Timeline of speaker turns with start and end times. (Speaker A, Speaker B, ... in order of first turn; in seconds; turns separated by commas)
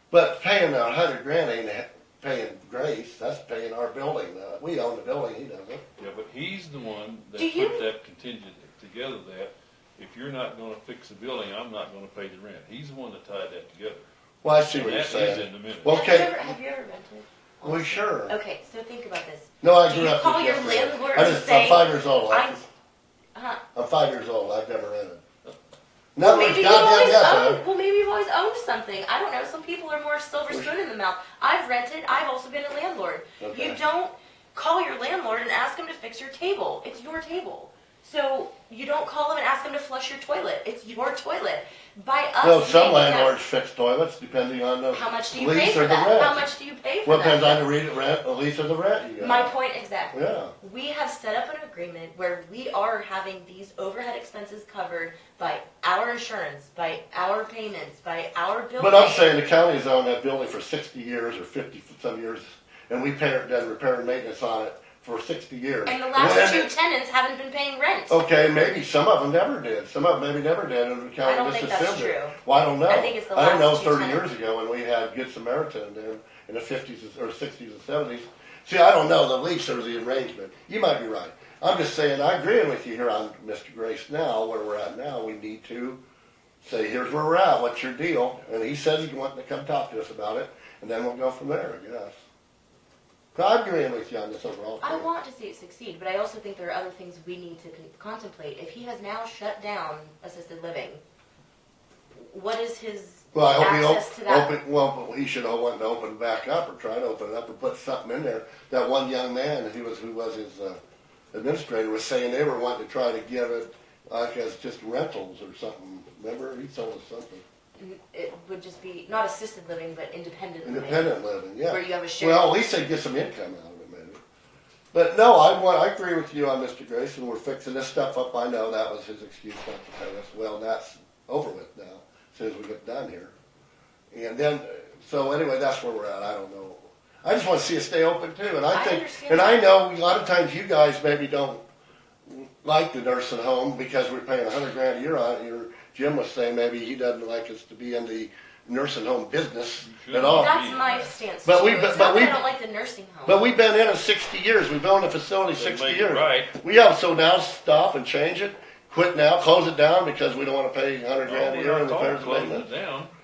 Speaker A: 0.1-5.8, Speaker B: 6.0-14.1, Speaker C: 7.3-7.8, Speaker A: 14.4-16.4, Speaker B: 14.7-16.0, Speaker C: 15.9-22.6, Speaker A: 17.6-18.4, Speaker A: 19.6-22.7, Speaker C: 23.3-23.6, Speaker A: 23.7-25.2, Speaker A: 26.1-27.6, Speaker C: 26.2-43.4, Speaker A: 33.4-33.8, Speaker A: 42.4-46.4, Speaker C: 44.9-47.6, Speaker A: 47.0-49.5, Speaker C: 49.2-59.4, Speaker A: 50.1-50.5, Speaker A: 58.8-66.7, Speaker C: 65.8-68.2, Speaker A: 68.1-86.0, Speaker C: 71.2-72.4, Speaker C: 72.9-74.3, Speaker A: 86.6-92.2, Speaker A: 93.3-95.0, Speaker C: 94.8-101.0, Speaker C: 102.1-104.5, Speaker A: 103.3-110.8, Speaker A: 111.3-117.4, Speaker C: 117.8-121.1, Speaker A: 120.6-124.2, Speaker C: 121.7-122.5, Speaker A: 124.9-133.3, Speaker A: 134.1-141.6, Speaker C: 138.7-139.7, Speaker A: 142.3-150.5, Speaker B: 149.8-151.1, Speaker C: 150.2-153.4, Speaker A: 151.4-152.4, Speaker A: 153.2-162.7, Speaker B: 155.5-156.5, Speaker B: 161.2-163.1